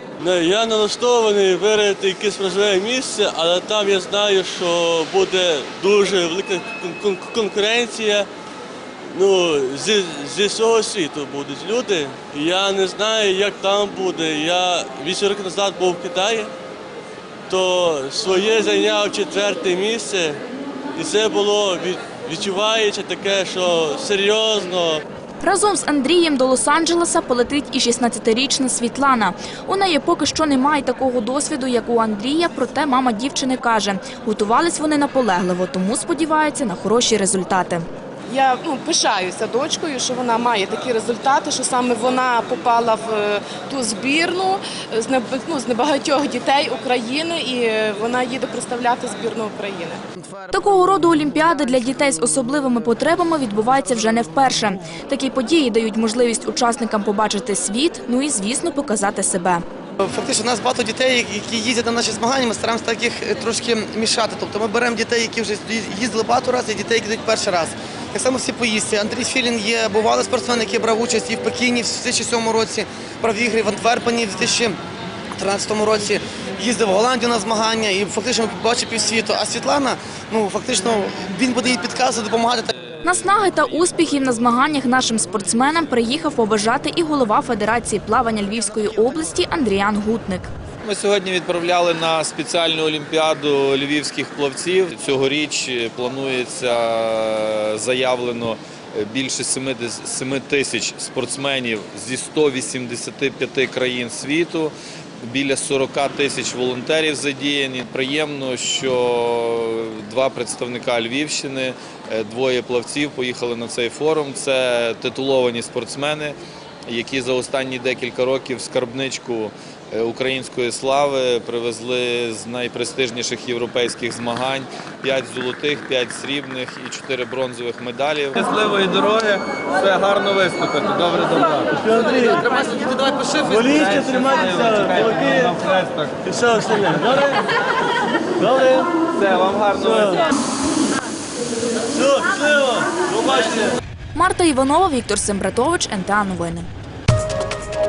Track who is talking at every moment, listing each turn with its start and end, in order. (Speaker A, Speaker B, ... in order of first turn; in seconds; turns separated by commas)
Speaker A: 0.2-8.3, Speaker A: 9.1-16.5, Speaker A: 17.5-20.4, Speaker A: 20.9-25.0, Speaker B: 25.4-37.9, Speaker C: 38.3-50.0, Speaker B: 50.5-59.6, Speaker D: 60.0-74.8, Speaker D: 75.3-82.7, Speaker B: 83.0-90.5, Speaker E: 90.8-104.7, Speaker E: 105.3-116.4, Speaker E: 116.9-131.7, Speaker A: 131.8-132.5, Speaker A: 133.4-135.6, Speaker E: 133.8-136.1, Speaker A: 136.3-137.4, Speaker A: 138.4-138.9, Speaker E: 139.2-140.2, Speaker A: 139.8-140.2, Speaker A: 141.9-143.7, Speaker B: 144.2-146.7